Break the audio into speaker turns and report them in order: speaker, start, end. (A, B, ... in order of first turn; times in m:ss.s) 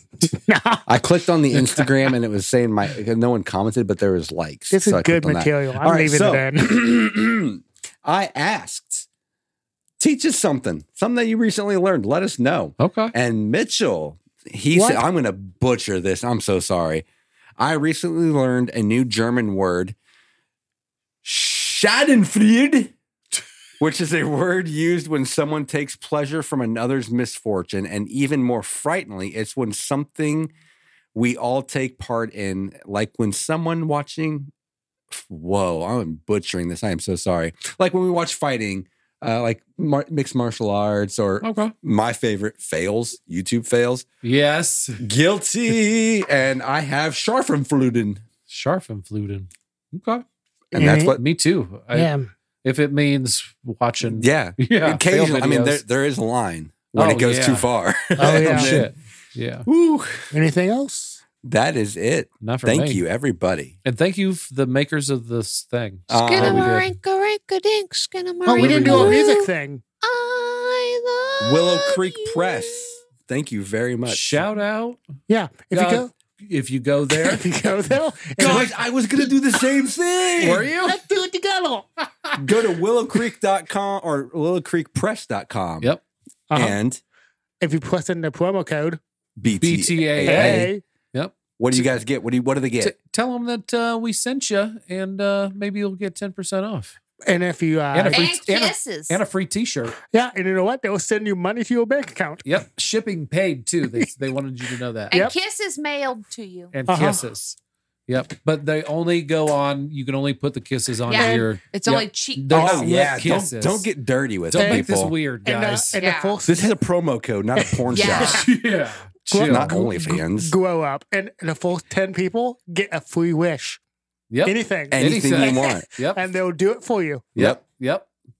0:00.2-0:00.9 A
0:00.9-0:09.1 B
0:04.7-0:06.7 A
0:10.0-0:17.0 B
0:12.8-0:13.1 C
0:14.7-0:15.0 A
0:17.6-0:19.9 B
0:21.2-0:22.9 B
0:23.8-0:30.5 B
0:31.1-0:34.5 B
0:35.1-0:44.1 B
0:41.4-0:41.7 C
0:44.2-0:45.0 C
0:45.0-0:48.2 B
0:48.5-0:50.2 C
0:50.7-0:51.2 B
0:50.7-0:51.1 A
0:50.9-0:52.1 C
0:51.9-0:52.3 A
0:52.6-0:55.8 C
0:54.0-0:58.9 B
0:56.9-0:57.6 C
0:58.2-0:58.8 A
0:58.2-0:59.7 C
0:59.6-1:00.3 B
1:00.3-1:01.2 A
1:01.4-1:03.8 B
1:02.4-1:03.0 C
1:03.8-1:06.9 C
1:06.1-1:06.8 B
1:06.2-1:09.5 D
1:08.4-1:09.8 A
1:08.5-1:09.3 C
1:10.0-1:13.0 D
1:11.4-1:14.4 B
1:14.0-1:15.0 C
1:15.3-1:16.1 A
1:15.7-1:17.4 C
1:17.1-1:18.7 A
1:18.4-1:20.6 B
1:20.4-1:21.0 C
1:20.4-1:21.9 A
1:22.4-1:26.0 B
1:26.5-1:26.8 A
1:26.5-1:27.0 B
1:27.6-1:29.0 A
1:29.4-1:30.7 B
1:29.6-1:32.0 C
1:30.2-1:30.8 A
1:31.6-1:32.9 B
1:32.8-1:37.0 C
1:37.2-1:38.3 A
1:37.9-1:40.0 C
1:38.1-1:39.2 D
1:40.0-1:42.4 A
1:42.4-1:45.2 C
1:45.1-1:46.7 D
1:46.7-1:53.8 C
1:46.9-1:47.2 A
1:51.1-1:52.9 D
1:51.1-1:51.5 A
1:52.5-1:55.1 B
1:54.5-1:56.0 C
1:54.5-1:54.9 A
1:55.4-1:56.7 A
1:56.0-1:56.4 D
1:56.4-1:58.4 B
1:57.6-1:58.4 A
1:57.9-1:58.4 D
1:58.1-1:59.8 C
1:59.3-2:03.8 A
1:59.4-2:00.5 B
2:04.3-2:06.2 C
2:04.4-2:07.3 A
2:04.9-2:05.9 B
2:07.3-2:08.1 C